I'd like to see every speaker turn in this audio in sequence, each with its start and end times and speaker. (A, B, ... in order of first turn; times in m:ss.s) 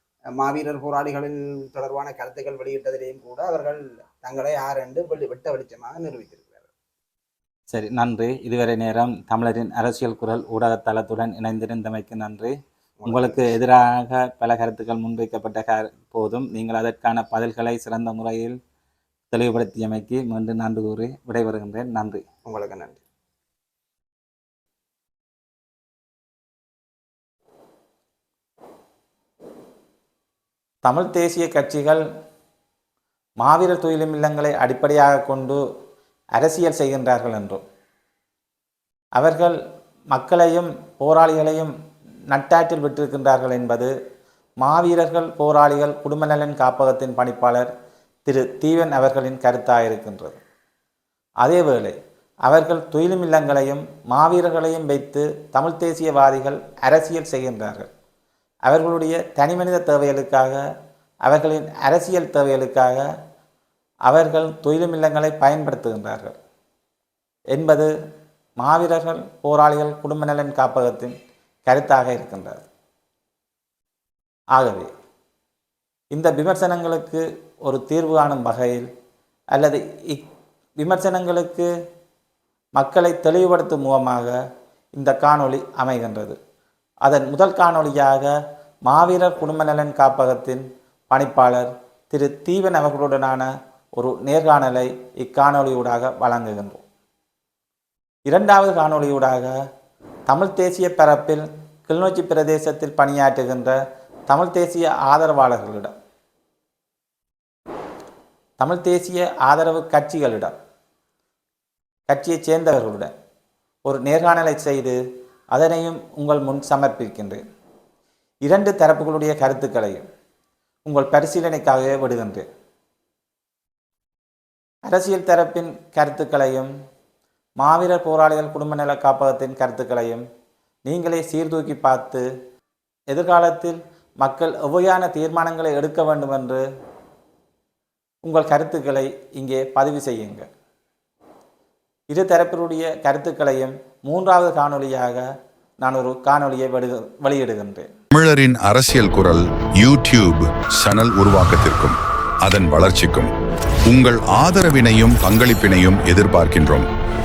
0:00.4-0:06.7 A
0:07.7-0:12.5 B
0:13.0-0:13.5 A
0:13.1-0:18.6 B
0:19.3-0:22.2 B
0:22.4-0:23.0 A
0:30.8-0:32.0 B
0:33.4-0:35.6 B
0:36.4-0:37.6 B
0:39.2-0:39.6 B
0:40.1-0:41.7 B
0:42.3-0:43.9 B
0:44.6-0:47.7 B
0:48.2-0:50.4 B
0:51.4-0:51.9 B
0:52.4-0:57.9 B
0:58.7-1:00.6 B
1:01.2-1:03.0 B
1:04.1-1:06.4 B
1:07.5-1:07.9 B
1:08.6-1:11.1 B
1:11.6-1:12.6 B
1:14.5-1:14.9 B
1:16.1-1:18.9 B
1:19.5-1:20.2 B
1:20.8-1:21.7 B
1:22.8-1:24.3 B
1:25.0-1:26.4 B
1:27.0-1:28.3 B
1:28.9-1:36.8 B
1:38.3-1:39.5 B
1:40.3-1:43.8 B
1:44.3-1:45.9 B
1:48.6-1:50.6 B
1:52.1-1:53.1 B
1:53.8-1:55.0 B
1:55.5-1:57.4 B
1:58.4-2:00.0 B
2:00.8-2:02.4 B
2:04.9-2:06.7 B
2:07.6-2:10.2 B
2:10.9-2:12.2 B
2:13.1-2:16.6 B
2:18.2-2:20.4 B
2:22.1-2:25.2 B
2:25.8-2:27.9 B
2:28.1-2:33.3 C
2:33.9-2:36.8 C